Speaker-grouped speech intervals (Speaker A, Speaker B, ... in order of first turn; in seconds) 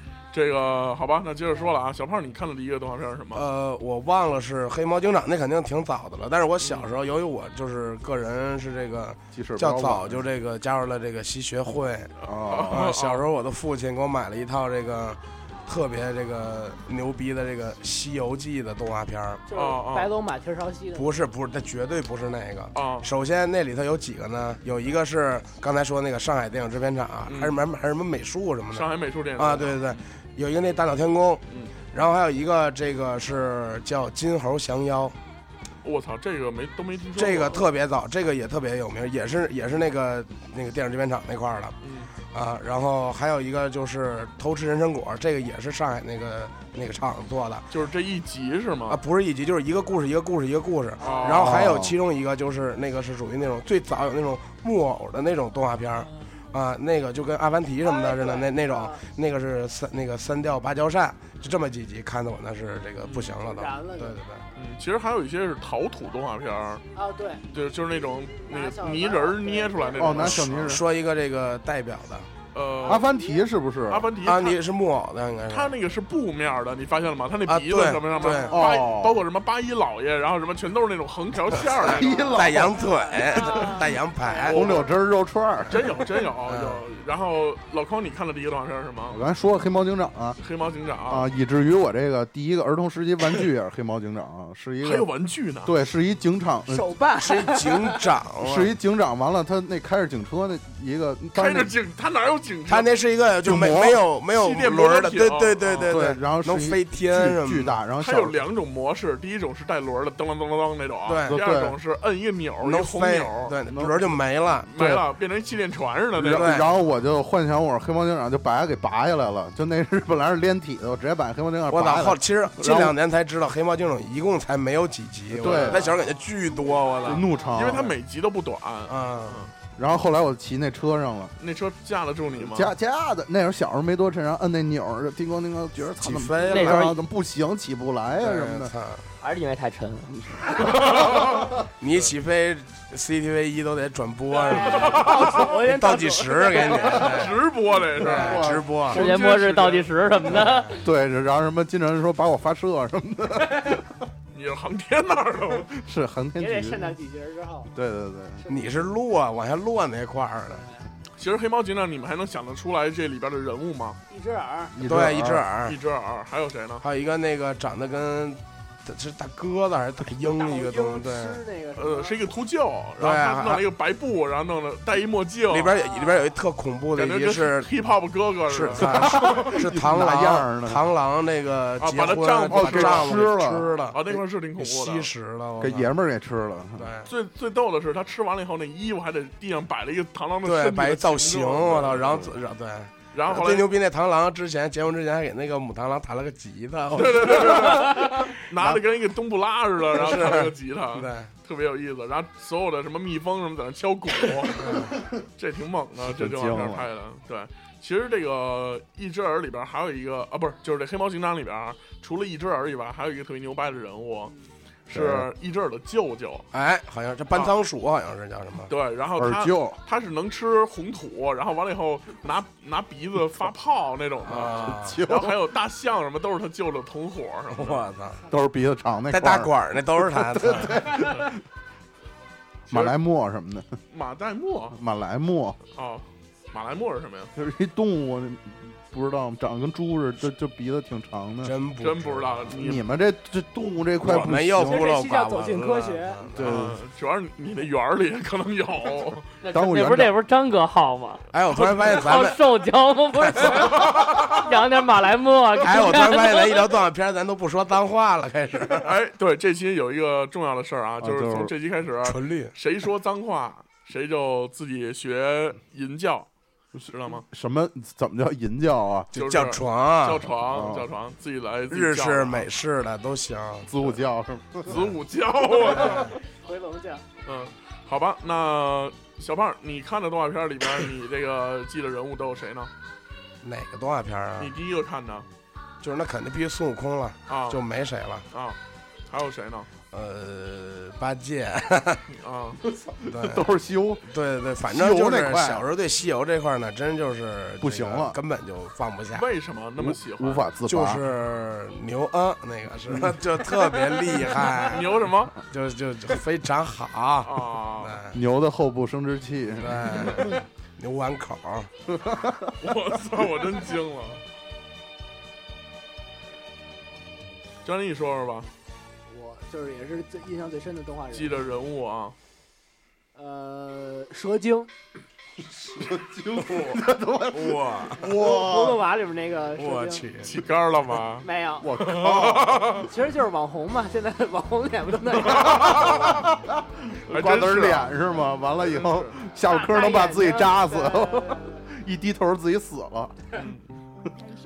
Speaker A: 0.3-3.5, 6.6-6.9, 12.3-13.3, 19.5-20.1, 22.8-23.1, 27.3-27.6, 28.7-30.0, 35.8-37.6, 41.8-42.1, 47.7-49.0, 51.0-51.6, 63.0-63.3, 64.6-66.8, 67.5-70.8, 72.5-73.0, 73.9-74.6, 75.5-82.1, 84.5-84.9, 85.7-89.2, 90.4-91.3, 94.8-95.7, 101.4-102.9, 104.3-106.0, 108.0-113.5, 114.7-116.5, 127.5-129.5, 131.4-132.7, 140.8-142.1, 144.6-145.4, 147.1-149.9, 154.3-155.7, 161.2-164.0, 165.7-166.8, 171.8-175.7, 176.9-179.6, 181.8-183.2, 183.9-185.1, 187.1-192.3, 193.1-193.7, 196.9-204.8, 205.4-214.3, 214.9-216.5, 218.7-227.8, 232.7-232.9, 233.9-234.8, 235.8-237.3, 241.8-242.8, 246.4-249.3, 251.5-251.9, 253.6-254.3, 258.8-266.3, 266.9-267.2, 269.1-272.5, 274.7-276.1, 277.3-282.7, 284.4-285.3, 287.3-287.6, 288.3-288.6, 289.1-289.7, 292.1-292.6, 299.1-300.5, 304.7-305.4, 307.2-308.0, 312.6-314.2, 317.6-318.5, 321.1-322.2, 330.2-332.9, 335.2-336.1, 337.1-337.9, 338.6-339.2, 343.4-343.6
Speaker B: 3.3-12.1, 12.7-19.4, 20.9-35.2, 37.2-47.7, 48.9-64.5, 70.2-72.3, 74.2-75.7, 77.5-78.6, 81.8-84.6, 86.5-86.8, 97.2-98.7, 102.7-107.8, 111.0-111.4, 112.6-114.7, 116.4-116.7, 121.7-127.3, 128.9-129.5, 136.0-137.0, 138.2-139.1, 141.8-147.4, 147.9-149.1, 150.3-150.8, 158.5-160.6, 164.8-165.8, 166.8-171.4, 173.0-173.6, 175.5-177.7, 178.5-185.9, 186.8-187.1, 190.4-198.2, 199.9-201.3, 204.6-204.9, 216.5-218.7, 224.2-225.0, 227.5-228.2, 229.1-230.8, 241.4-242.5, 244.0-246.7, 251.3-252.4, 255.6-258.9, 262.0-262.5, 269.1-270.3, 271.7-273.7, 283.4-284.6, 285.8-288.3, 289.9-292.0, 293.1-293.5, 294.1-299.3, 300.7-304.9, 305.5-308.2, 309.6-311.7, 327.3-328.1, 329.6-330.4
Speaker C: 9.3-10.2, 12.2-12.9, 51.3-52.0, 70.0-70.8, 72.8-74.1, 78.5-79.2, 81.8-82.8, 83.3-83.8, 84.5-86.0, 89.1-90.4, 91.1-95.1, 95.6-96.9, 98.4-101.7, 103.4-104.0, 105.8-108.4, 111.3-111.8, 113.7-114.1, 114.8-115.0, 116.2-123.0, 125.3-125.9, 127.0-128.0, 129.8-131.3, 132.4-138.7, 140.3-141.5, 148.0-148.8, 150.8-153.9, 155.7-157.0, 157.7-158.4, 164.8-165.4, 178.8-180.8, 182.5-183.7, 185.6-186.9, 206.0-206.9, 214.9-215.3, 219.2-219.8, 224.3-225.4, 228.3-231.4, 232.7-233.8, 234.7-235.6, 237.3-241.5, 242.5-244.9, 246.4-246.8, 249.5-250.1, 261.0-261.5, 266.8-269.1, 270.4-270.9, 273.7-274.8, 292.6-294.1, 294.7-295.6, 297.6-298.2, 299.8-301.0, 308.1-310.4, 311.9-312.5, 325.4-328.8, 331.6-332.9, 335.5-343.2
Speaker D: 19.5-21.2, 57.8-59.0, 63.4-64.2, 67.0-67.5, 68.5-70.2, 72.8-73.4, 78.1-78.5, 81.9-84.9, 96.7-98.1, 127.3-127.8, 144.3-147.3, 156.4-157.7, 158.4-158.9, 160.6-160.8, 164.1-164.8, 170.2-172.2, 175.7-176.4, 244.7-246.3, 275.7-277.1, 319.1-321.5, 323.2-324.7, 328.1-330.1, 331.2-331.7, 332.9-336.1, 339.4-341.6
Speaker E: 136.5-136.9, 139.2-140.1, 148.9-150.8, 249.4-251.2, 251.9-256.6